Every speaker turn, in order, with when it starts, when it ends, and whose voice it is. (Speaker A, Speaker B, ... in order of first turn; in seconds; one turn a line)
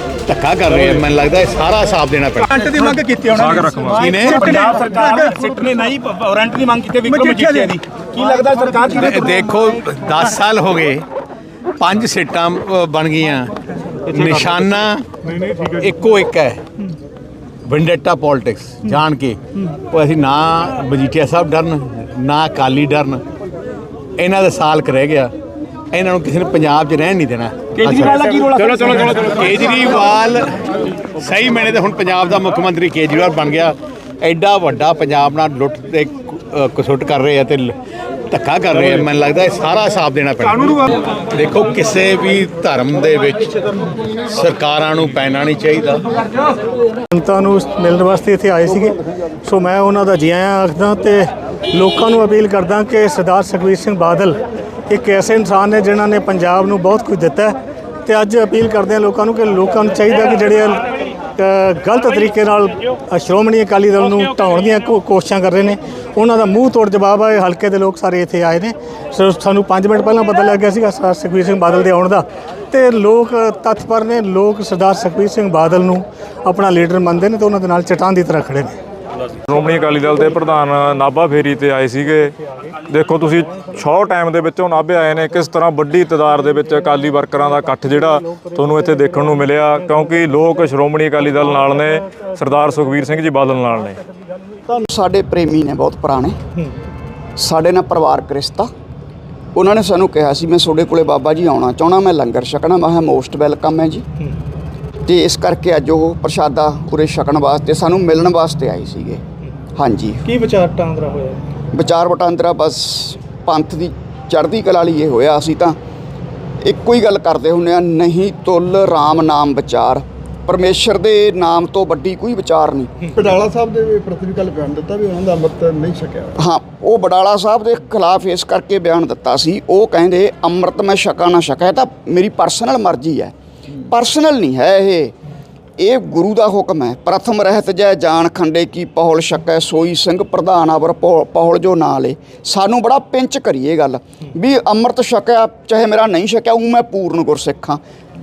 Speaker A: 0.2-2.6
Speaker B: 2.5-9.1
Speaker C: 3.3-4.2
Speaker A: 3.9-5.0
Speaker A: 7.1-7.4
Speaker A: 8.8-11.0
Speaker A: 11.8-13.5
Speaker A: 14.1-16.6
Speaker A: 17.6-23.2
Speaker A: 24.2-25.3
Speaker A: 25.9-37.7
Speaker B: 27.8-29.2
Speaker A: 38.3-43.5
Speaker A: 44.3-46.0
Speaker D: 47.1-54.4
Speaker D: 54.9-60.9
Speaker D: 61.4-78.8
Speaker C: 79.4-82.3
Speaker C: 82.9-94.0
Speaker E: 94.7-96.4
Speaker E: 97.4-98.7
Speaker E: 99.5-104.0
Speaker E: 105.0-109.2
Speaker E: 109.8-110.2
Speaker E: 111.7-115.8
Speaker E: 116.6-123.0
Speaker F: 123.1-126.4
Speaker E: 126.4-133.3
Speaker E: 133.9-135.1
Speaker E: 135.8-147.8